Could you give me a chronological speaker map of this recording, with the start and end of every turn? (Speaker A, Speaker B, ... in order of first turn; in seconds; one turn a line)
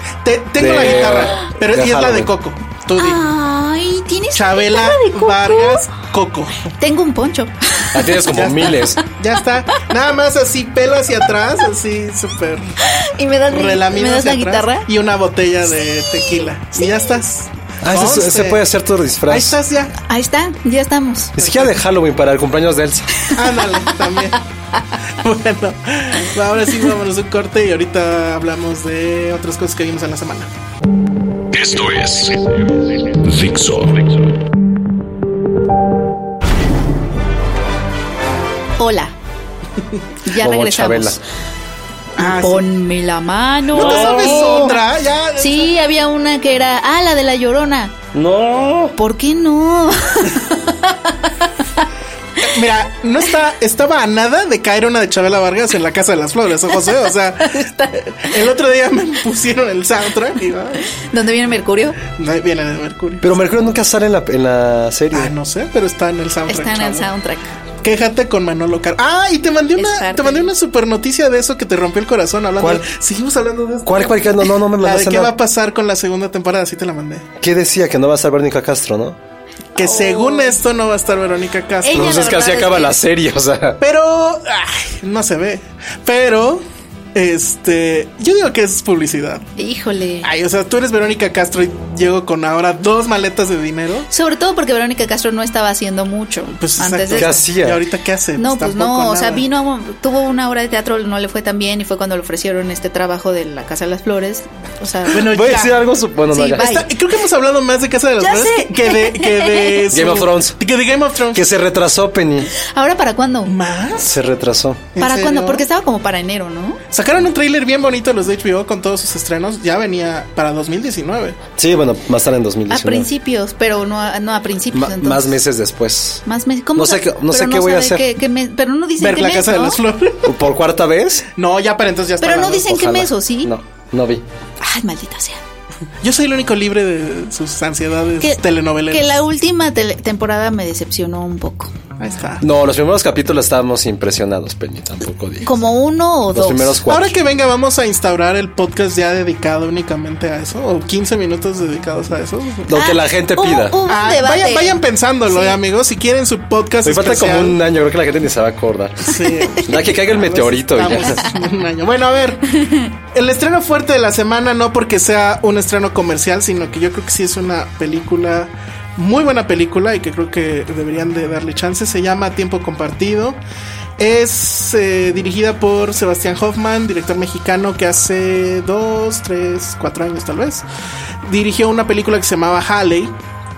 Speaker A: 0.2-3.2
Speaker B: 0.6-2.3
Speaker C: 0.9-1.4
Speaker C: 3.0-5.9
Speaker A: 4.3-6.6
Speaker C: 6.8-8.2
Speaker B: 7.9-9.0
Speaker A: 8.2-12.8
Speaker C: 12.8-14.9
Speaker A: 13.5-18.6
Speaker C: 16.1-17.0
Speaker B: 17.8-19.6
Speaker A: 19.3-19.9
Speaker C: 20.1-21.3
Speaker B: 21.4-23.1
Speaker A: 21.4-21.7
Speaker A: 23.3-24.4
Speaker A: 25.2-30.5
Speaker D: 31.5-34.4
Speaker C: 38.8-39.1
Speaker C: 40.2-41.2
Speaker B: 40.3-41.2
Speaker A: 42.2-42.7
Speaker C: 42.2-44.8
Speaker A: 43.7-45.7
Speaker B: 43.7-44.7
Speaker C: 45.4-47.9
Speaker B: 48.1-48.9
Speaker C: 49.0-51.3
Speaker A: 52.4-60.9
Speaker C: 57.4-58.0
Speaker C: 60.9-62.0
Speaker A: 62.1-63.3
Speaker B: 63.2-65.3
Speaker A: 65.1-67.1
Speaker C: 66.5-67.5
Speaker A: 67.8-77.3
Speaker C: 69.8-70.5
Speaker B: 72.6-72.9
Speaker B: 73.8-75.3
Speaker B: 77.4-79.2
Speaker C: 79.8-80.6
Speaker A: 79.8-82.3
Speaker C: 81.8-83.0
Speaker B: 81.9-83.8
Speaker A: 83.8-89.5
Speaker C: 89.6-90.3
Speaker A: 90.2-94.1
Speaker C: 94.1-97.4
Speaker A: 96.5-99.4
Speaker B: 97.1-97.8
Speaker C: 98.4-105.2
Speaker A: 105.1-105.8
Speaker B: 105.1-106.8
Speaker C: 106.3-106.9
Speaker A: 106.5-111.5
Speaker C: 108.2-109.8
Speaker B: 109.9-110.6
Speaker B: 111.3-112.5
Speaker C: 112.6-113.5
Speaker A: 113.4-114.1
Speaker B: 114.0-114.9
Speaker A: 114.9-115.7
Speaker C: 115.0-116.8
Speaker A: 116.9-121.4
Speaker B: 121.6-123.1
Speaker C: 122.7-125.4
Speaker B: 124.7-126.2
Speaker C: 126.2-129.8
Speaker B: 126.7-128.1
Speaker A: 129.0-130.4
Speaker B: 130.2-131.3
Speaker A: 131.3-132.8
Speaker C: 132.2-133.5
Speaker B: 132.6-134.2
Speaker C: 134.6-135.4
Speaker A: 136.0-139.2
Speaker C: 138.2-141.7
Speaker A: 142.0-142.4
Speaker B: 142.4-145.5
Speaker C: 145.4-146.8
Speaker B: 146.3-147.2
Speaker A: 146.9-152.7
Speaker B: 152.7-153.8
Speaker C: 152.7-155.6
Speaker A: 153.8-157.6
Speaker B: 156.8-161.3
Speaker A: 159.0-162.6
Speaker C: 162.6-162.9
Speaker A: 163.1-173.4
Speaker A: 174.0-180.6
Speaker A: 181.2-183.1